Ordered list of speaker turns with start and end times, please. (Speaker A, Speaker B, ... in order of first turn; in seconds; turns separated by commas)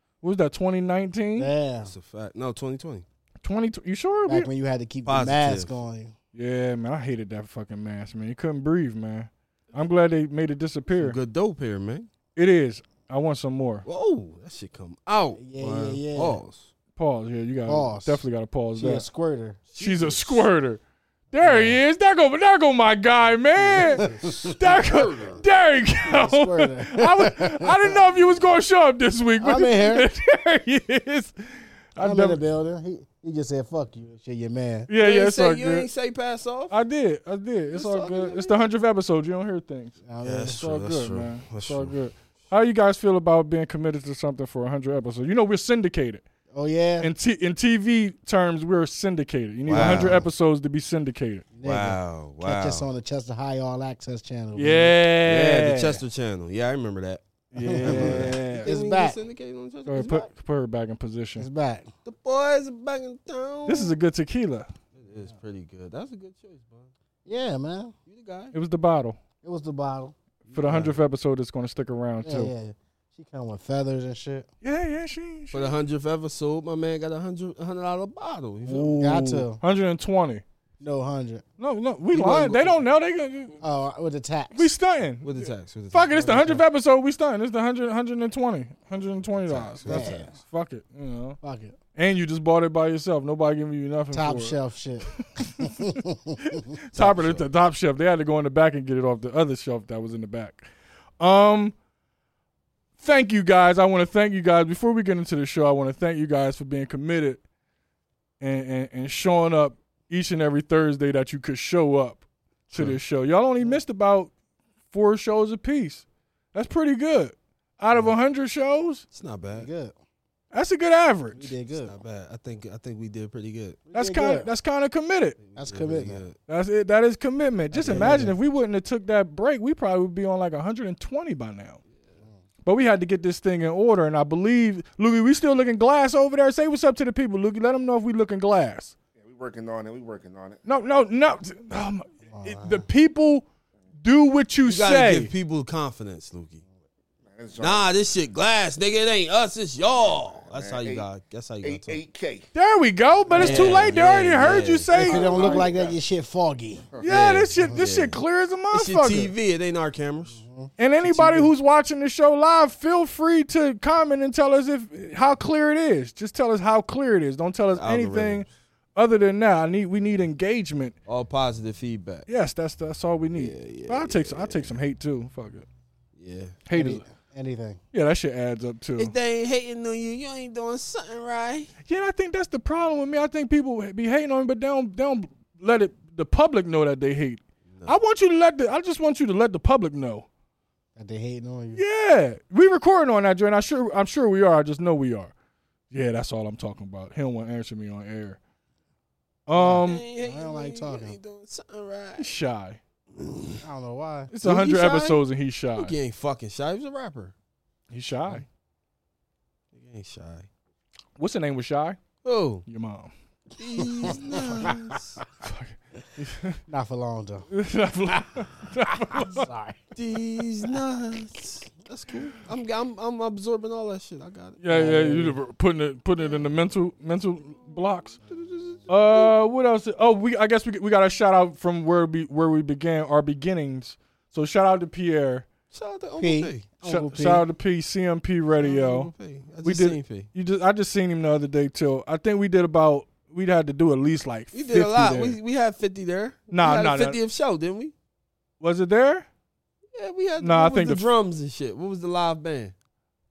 Speaker A: 0.2-1.5, Speaker B: 1.4-1.9, Speaker C: 1.8-3.0, Speaker A: 3.4-4.5, Speaker B: 4.3-6.2, Speaker C: 5.1-5.8, Speaker A: 6.3-11.2, Speaker C: 11.0-12.1, Speaker A: 12.4-13.8, Speaker C: 13.8-16.7, Speaker B: 15.4-16.4, Speaker A: 17.0-19.1, Speaker B: 17.7-18.2, Speaker B: 18.8-19.6, Speaker C: 19.7-20.5, Speaker A: 19.8-20.8, Speaker A: 21.3-31.3, Speaker B: 21.4-21.8, Speaker B: 23.6-24.8, Speaker C: 23.8-25.4, Speaker B: 26.0-28.0, Speaker B: 29.4-30.1, Speaker A: 31.9-32.4, Speaker B: 32.0-34.9, Speaker A: 34.9-35.9, Speaker C: 35.0-36.7, Speaker A: 36.7-40.0, Speaker C: 37.7-38.6, Speaker B: 40.0-40.7, Speaker C: 40.2-42.0, Speaker A: 40.5-46.2, Speaker B: 46.5-47.1, Speaker A: 47.0-51.5, Speaker C: 49.7-50.3, Speaker B: 51.6-55.0, Speaker C: 51.6-52.9, Speaker A: 54.5-56.0, Speaker C: 55.2-60.3, Speaker A: 57.5-58.7, Speaker B: 57.6-59.2, Speaker A: 59.9-61.5, Speaker B: 61.4-61.9, Speaker C: 62.0-64.0, Speaker A: 63.7-64.7, Speaker C: 65.0-66.9, Speaker B: 67.3-67.9, Speaker C: 68.1-68.5, Speaker A: 68.5-69.2, Speaker B: 69.4-70.2, Speaker C: 70.5-71.0, Speaker A: 70.5-72.5, Speaker B: 72.2-74.5, Speaker A: 74.6-75.7, Speaker C: 75.5-79.0, Speaker A: 78.7-80.4, Speaker B: 79.0-79.6, Speaker B: 80.8-81.5, Speaker A: 81.6-83.6, Speaker C: 82.1-82.8, Speaker B: 83.6-84.7, Speaker A: 84.5-91.4, Speaker C: 85.2-86.6, Speaker C: 89.4-90.3, Speaker B: 89.8-90.3, Speaker B: 91.4-91.8, Speaker A: 92.0-94.6, Speaker B: 94.1-96.6, Speaker A: 95.3-100.7, Speaker C: 96.9-97.5, Speaker A: 101.2-101.8, Speaker A: 103.0-107.4, Speaker A: 108.4-114.3, Speaker C: 112.7-113.0, Speaker A: 114.9-119.0, Speaker C: 119.1-119.7, Speaker B: 119.5-119.9, Speaker A: 120.5-121.5, Speaker B: 121.3-121.9, Speaker C: 121.8-123.9, Speaker B: 123.9-124.5, Speaker A: 123.9-125.4, Speaker C: 125.4-126.4, Speaker B: 125.6-126.2, Speaker A: 126.5-131.8, Speaker B: 127.7-128.3, Speaker C: 127.9-128.2, Speaker A: 132.7-138.9, Speaker D: 139.2-140.6, Speaker A: 140.7-143.4, Speaker B: 142.3-142.9, Speaker A: 144.0-145.3, Speaker C: 144.7-146.6, Speaker D: 147.3-147.9, Speaker C: 147.6-152.0, Speaker D: 150.0-151.1, Speaker D: 151.6-152.5, Speaker A: 152.5-155.6, Speaker B: 153.3-153.9, Speaker C: 153.4-154.9, Speaker B: 154.9-156.9, Speaker D: 154.9-156.0, Speaker A: 157.0-159.3, Speaker C: 157.1-158.2, Speaker C: 158.7-160.4, Speaker B: 160.3-160.7, Speaker A: 160.8-170.9, Speaker C: 161.0-161.5, Speaker C: 167.8-168.5, Speaker C: 171.1-172.3, Speaker A: 172.3-175.7, Speaker C: 173.3-174.8, Speaker C: 176.2-176.6, Speaker A: 176.7-177.0, Speaker B: 176.7-177.8, Speaker A: 177.9-179.1, Speaker C: 179.0-181.7, Speaker A: 181.9-190.3, Speaker B: 191.0-191.8, Speaker A: 191.8-195.3, Speaker A: 195.9-198.4, Speaker A: 199.5-200.0, Speaker B: 199.5-201.2, Speaker C: 199.6-202.3, Speaker A: 202.2-202.8, Speaker C: 203.2-203.6, Speaker B: 203.6-204.3, Speaker A: 204.3-205.9, Speaker C: 204.4-205.2, Speaker C: 205.8-207.3, Speaker A: 207.9-208.4, Speaker C: 209.7-210.5, Speaker A: 211.2-212.0, Speaker C: 212.2-212.7, Speaker A: 212.7-213.1, Speaker C: 213.6-215.2, Speaker B: 213.8-214.8, Speaker A: 215.4-216.6, Speaker B: 216.7-217.5, Speaker A: 217.5-219.5, Speaker B: 218.1-219.8, Speaker C: 219.9-224.6, Speaker A: 224.6-228.2, Speaker B: 224.7-225.4, Speaker C: 228.2-229.3, Speaker A: 228.9-235.5, Speaker C: 235.7-236.7, Speaker B: 236.2-237.5, Speaker A: 236.8-239.1, Speaker C: 238.6-240.3, Speaker A: 239.6-245.4, Speaker C: 244.5-247.9, Speaker A: 246.5-247.2, Speaker A: 248.6-249.3, Speaker C: 249.9-252.7, Speaker A: 250.4-251.1